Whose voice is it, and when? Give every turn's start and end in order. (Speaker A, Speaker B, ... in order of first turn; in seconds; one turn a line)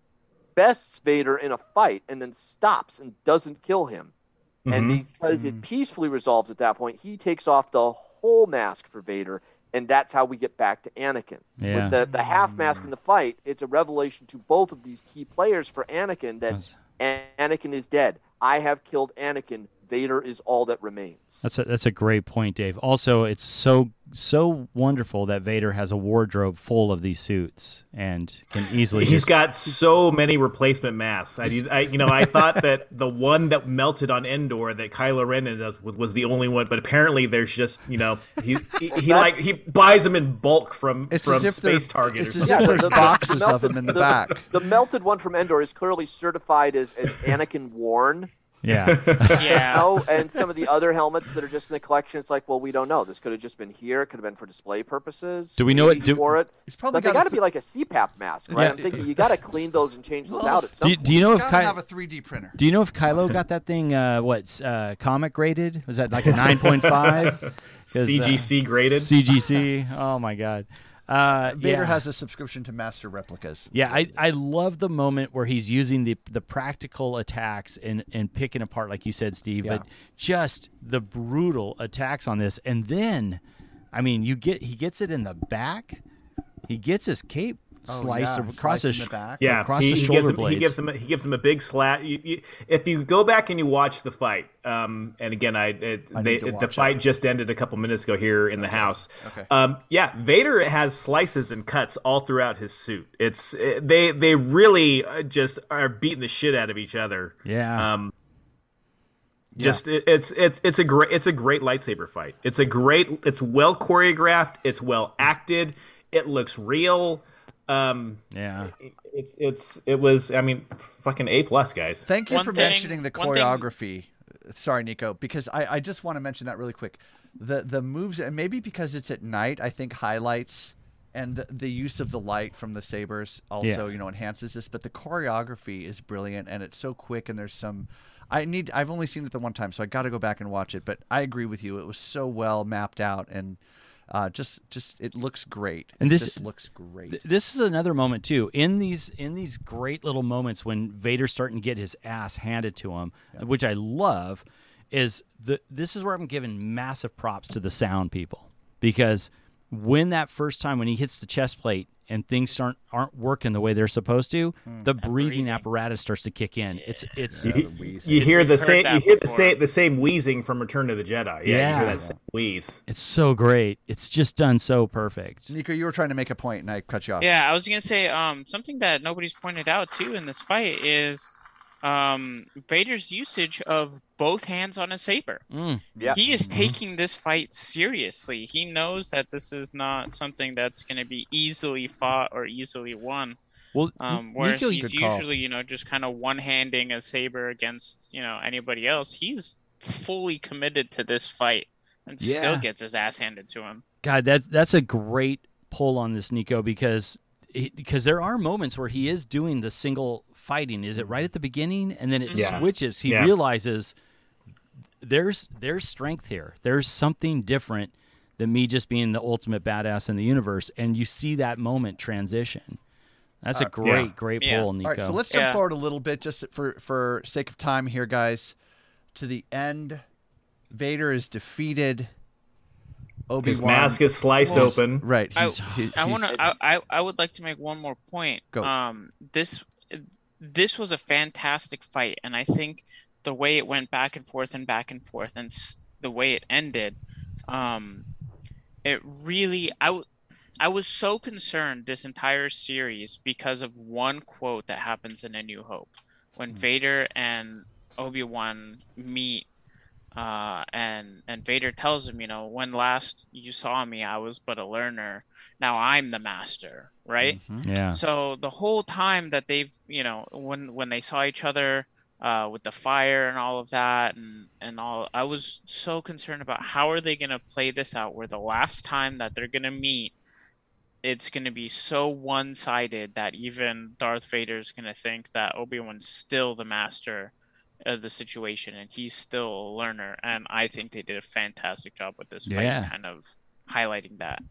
Speaker A: 0.6-4.1
Speaker B: 4.7-5.0
Speaker A: 4.7-21.4
Speaker C: 5.3-5.6
Speaker D: 11.6-12.0
Speaker C: 12.0-12.9
Speaker D: 16.5-16.8
Speaker D: 21.4-29.3
Speaker B: 29.0-43.2
Speaker C: 31.5-32.4
Speaker A: 38.9-39.5
Speaker C: 41.1-44.5
Speaker A: 42.4-48.3
Speaker D: 48.6-49.5
Speaker B: 48.9-49.7
Speaker E: 49.4-49.9
Speaker A: 49.7-61.1
Speaker D: 55.6-56.4
Speaker C: 56.7-57.4
Speaker C: 58.5-59.1
Speaker D: 58.5-58.8
Speaker C: 60.2-62.6
Speaker D: 60.8-61.8
Speaker D: 62.6-72.0
Speaker B: 66.5-67.3
Speaker B: 67.9-69.1
Speaker C: 71.4-74.2
Speaker D: 73.7-83.4
Speaker D: 83.9-86.0
Speaker D: 86.7-90.8
Speaker C: 87.9-89.6
Speaker B: 89.4-108.1
Speaker C: 96.1-97.0
Speaker C: 98.6-99.5
Speaker D: 107.5-107.9
Speaker C: 109.5-109.8
Speaker B: 109.6-118.2
Speaker D: 118.3-118.7
Speaker B: 118.9-122.1
Speaker C: 122.1-147.2
Speaker E: 122.3-123.7
Speaker D: 133.6-133.9
Speaker D: 146.0-146.4
Speaker D: 147.1-167.6
Speaker E: 165.0-165.7
Speaker E: 166.7-167.1
Speaker C: 167.3-168.5
Speaker B: 167.4-172.8
Speaker E: 168.2-169.6
Speaker D: 171.4-172.0
Speaker C: 171.8-172.2
Speaker D: 172.9-175.5
Speaker C: 175.5-177.4
Speaker E: 177.2-181.3
Speaker E: 181.8-185.4
Speaker D: 185.5-186.5
Speaker C: 186.0-186.8
Speaker E: 186.2-193.4
Speaker D: 193.7-195.2
Speaker E: 194.0-203.8
Speaker D: 202.2-202.7
Speaker D: 204.0-213.9
Speaker C: 211.0-211.3
Speaker E: 212.3-212.7
Speaker B: 212.3-213.3
Speaker D: 215.0-222.8
Speaker D: 223.4-225.2
Speaker B: 223.8-224.1
Speaker E: 224.4-224.7
Speaker C: 224.8-228.6
Speaker E: 225.3-225.6
Speaker C: 229.2-230.0
Speaker C: 230.7-232.1
Speaker C: 233.3-236.4
Speaker B: 233.4-235.1
Speaker E: 234.4-234.8
Speaker E: 235.3-248.1
Speaker A: 236.3-236.5
Speaker E: 248.8-250.1
Speaker E: 250.6-259.5
Speaker E: 260.1-280.1
Speaker C: 267.2-267.7
Speaker D: 267.6-268.0
Speaker E: 281.0-287.3
Speaker E: 287.9-294.4
Speaker D: 292.5-292.9